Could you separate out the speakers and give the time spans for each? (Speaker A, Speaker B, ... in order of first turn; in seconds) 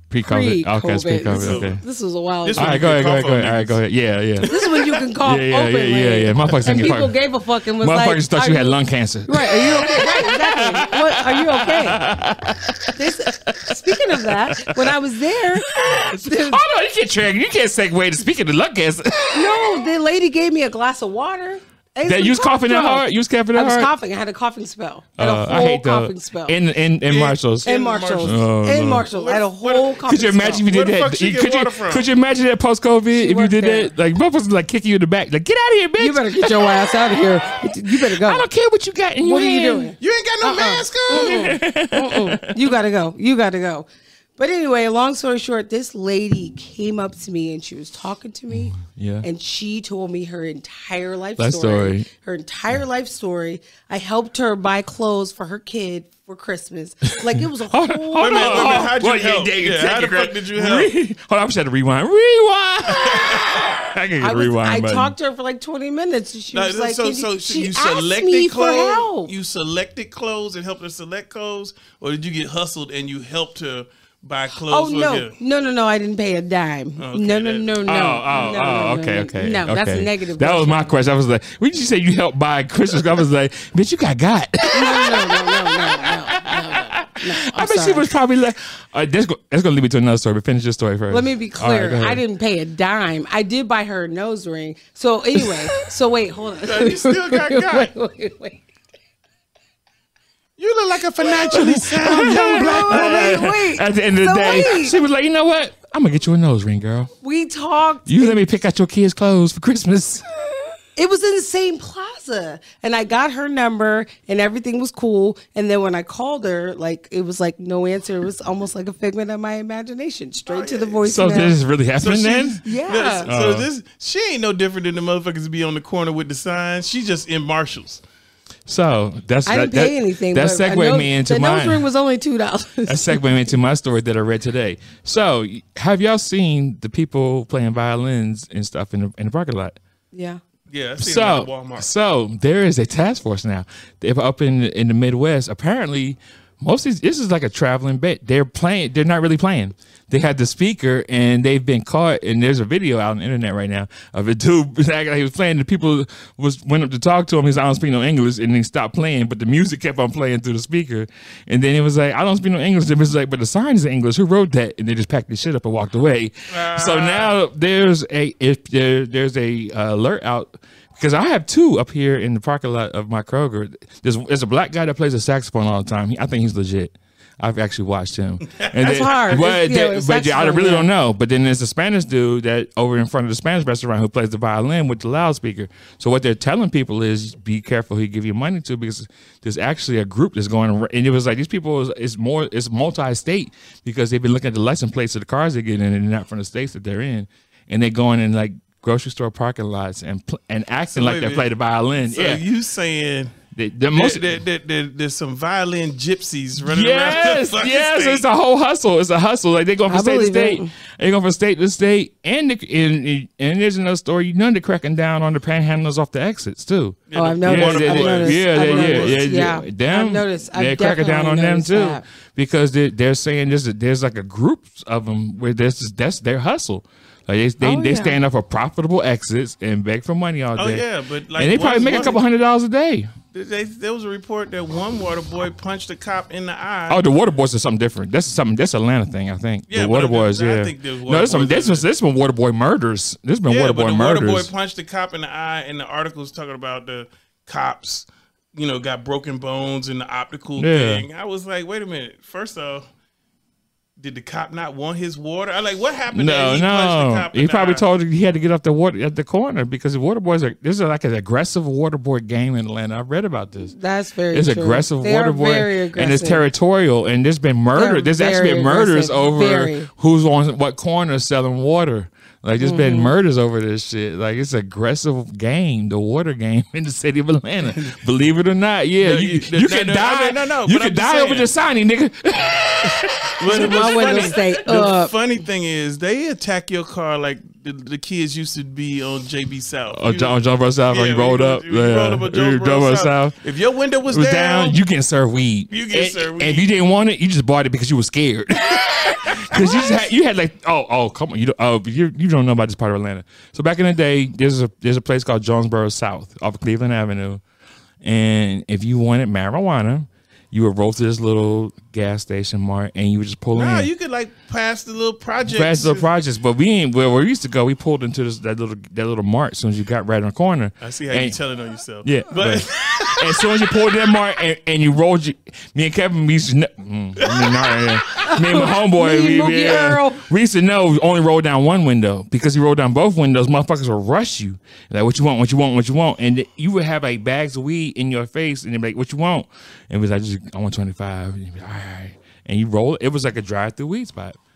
Speaker A: 0.1-1.8, 2.6-4.5, 5.2-7.2, 7.8-14.9, 15.7-19.8, 22.1-23.9, 25.2-27.7, 28.2-29.1, 30.1-39.9, 41.1-42.7, 48.7-49.3, 51.4-52.1, 57.3-65.1, 77.9-92.2, 101.5-107.1, 108.1-110.2, 121.0-122.6, 123.3-123.7, 128.7-131.8, 132.9-139.8, 141.0-202.4, 203.5-204.3, 206.6-230.8, 231.4-233.1, 236.9-244.5, 250.6-251.1, 256.1-263.7, 264.3-284.6, 289.9-293.4, 294.1-307.4, 308.0-313.9, 315.5-321.4, 322.0-344.4
Speaker B: 0.3-2.7, 4.5-12.0, 12.9-16.6, 19.3-26.6, 27.6-30.7, 33.1-33.9, 36.0-38.5, 39.2-58.9, 64.2-69.3, 74.7-80.9, 84.7-88.1, 91.1-98.6, 102.1-105.0, 107.2-108.4, 111.0-121.5, 122.6-123.3, 129.5-133.2, 140.1-140.4, 178.8-180.9, 209.9-210.7, 217.2-222.0, 227.6-228.2, 263.7-266.4, 267.8-269.9, 272.6-273.1, 283.5-285.1, 328.2-330.2
Speaker C: 1.3-1.8, 2.4-3.8, 4.4-4.9, 27.1-32.1, 40.0-41.5, 58.2-60.9, 62.9-63.6, 66.5-75.3, 77.0-78.1, 96.6-97.9, 100.6-103.3, 120.5-121.1, 122.0-128.0, 140.7-141.9, 166.5-167.3, 200.9-201.5, 202.1-203.3, 203.9-208.3, 217.1-219.2, 230.6-232.2, 233.3-237.0, 239.7-241.9, 243.5-252.9, 254.0-257.8, 279.0-281.5, 283.4-290.3, 290.9-294.8, 295.7-296.7, 299.5-299.8, 313.5-316.1, 320.8-323.3, 327.2-328.0